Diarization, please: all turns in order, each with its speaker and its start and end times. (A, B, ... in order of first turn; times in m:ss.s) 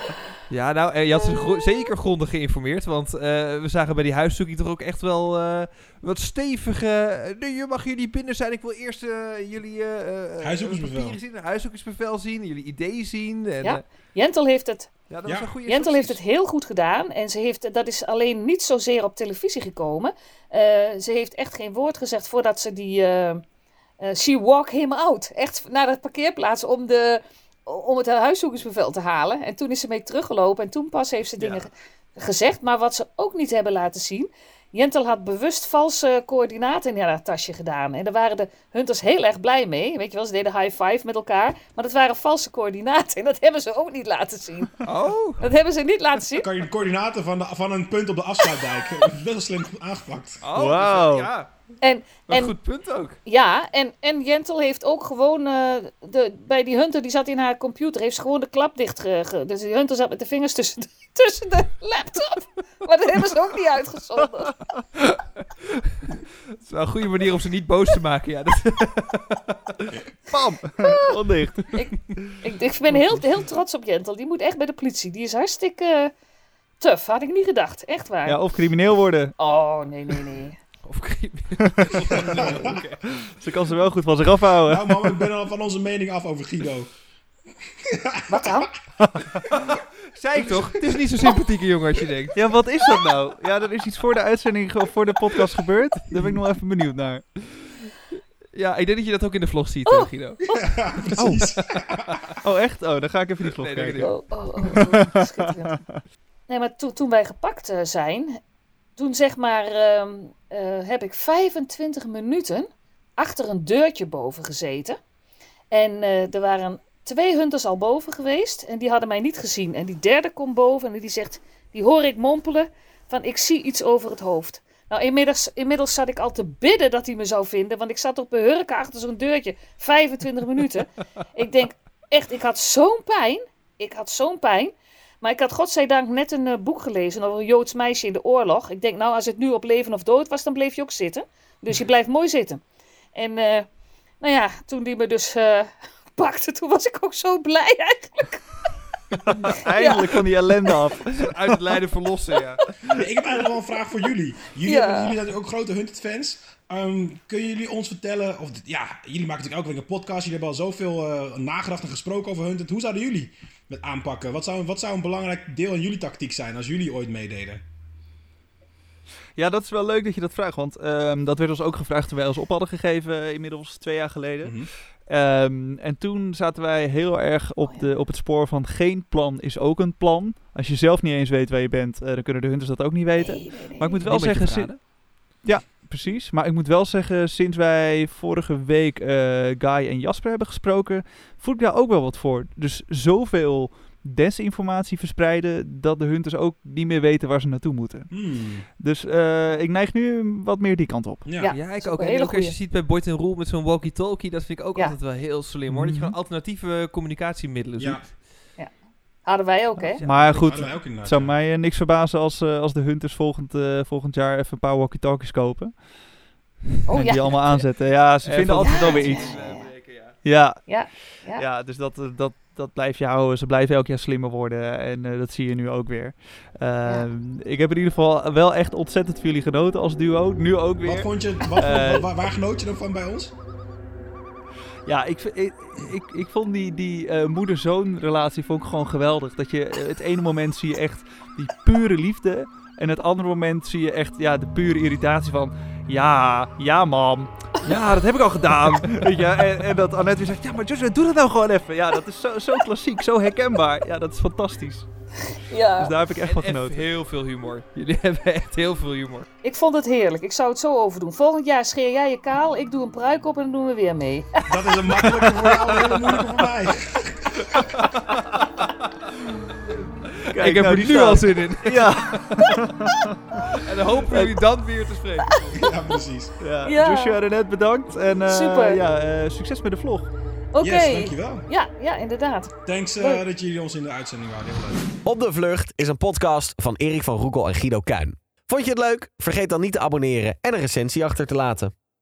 0:00.5-0:13.8 A
0:10.4-0:11.2 B
0:13.6-0:14.9 C
0:15.1-0:16.2 A
0:15.2-0:15.5 B
0:15.7-0:23.4 C
0:24.0-0:44.8 C
0:44.8-0:45.5 A
0:45.4-0:46.5 C
0:46.4-0:50.4 B
0:50.4-0:51.5 A
0:50.5-0:51.3 D
0:51.8-0:52.5 C
0:52.3-0:53.2 A
0:53.2-1:04.6 C
1:05.0-1:09.9 A
1:10.3-1:11.8 D
1:11.7-1:16.1 C
1:16.8-1:18.4 C
1:18.2-1:19.3 D
1:19.4-1:20.6 C
1:20.8-1:23.0 A
1:21.6-1:25.0 D
1:22.2-1:22.8 B
1:24.6-1:26.9 B
1:27.8-1:28.7 B
1:28.3-1:28.7 C
1:29.0-1:29.3 D
1:29.6-1:32.4 A
1:32.3-1:37.5 D
1:38.5-1:40.4 A
1:39.9-1:40.8 C
1:40.5-1:42.2 B
1:41.2-1:41.4 D
1:42.4-1:46.0 D
1:43.4-1:44.2 A
1:44.0-1:45.8 C
1:46.5-1:48.4 C
1:49.0-1:55.0 C
1:55.7-2:22.6 C
2:23.1-2:23.7 C
2:24.2-2:28.7 C
2:29.3-2:31.6 D
2:29.6-2:30.2 C
2:31.1-2:32.7 A
2:32.9-2:47.6 B
2:34.6-2:35.1 C
2:49.4-3:04.9 D
2:54.4-2:54.7 B
3:03.2-3:04.1 C
3:04.0-3:04.8 A
3:05.4-3:18.1 D
3:18.1-3:18.6 B
3:18.8-3:21.3 D
3:21.2-3:21.5 B
3:21.4-3:22.5 C
3:21.5-3:28.2 A
3:25.7-3:26.1 D
3:27.8-3:28.0 B
3:29.2-3:30.0 C
3:29.8-3:35.8 D
3:29.9-3:30.7 A
3:30.2-3:31.3 B
3:36.9-3:37.7 C
3:36.9-3:39.3 D
3:38.2-3:40.2 A
3:38.6-3:39.7 C
3:40.2-3:52.1 D
3:40.6-3:41.4 C
3:50.8-3:53.3 B
3:54.8-4:14.9 D
4:15.3-4:15.9 C
4:15.8-4:16.8 D
4:16.2-4:19.3 A
4:19.4-4:24.5 C
4:24.4-4:27.7 B
4:28.1-4:28.4 D
4:30.2-4:32.5 A
4:30.3-4:33.6 D
4:33.6-4:35.6 A
4:35.4-4:35.8 C
4:35.5-4:36.3 B
4:36.4-4:40.1 D
4:36.6-4:37.2 C
4:38.3-4:38.8 C
4:40.5-4:43.2 C
4:40.6-4:41.4 B
4:42.6-4:44.9 B
4:45.0-4:51.7 E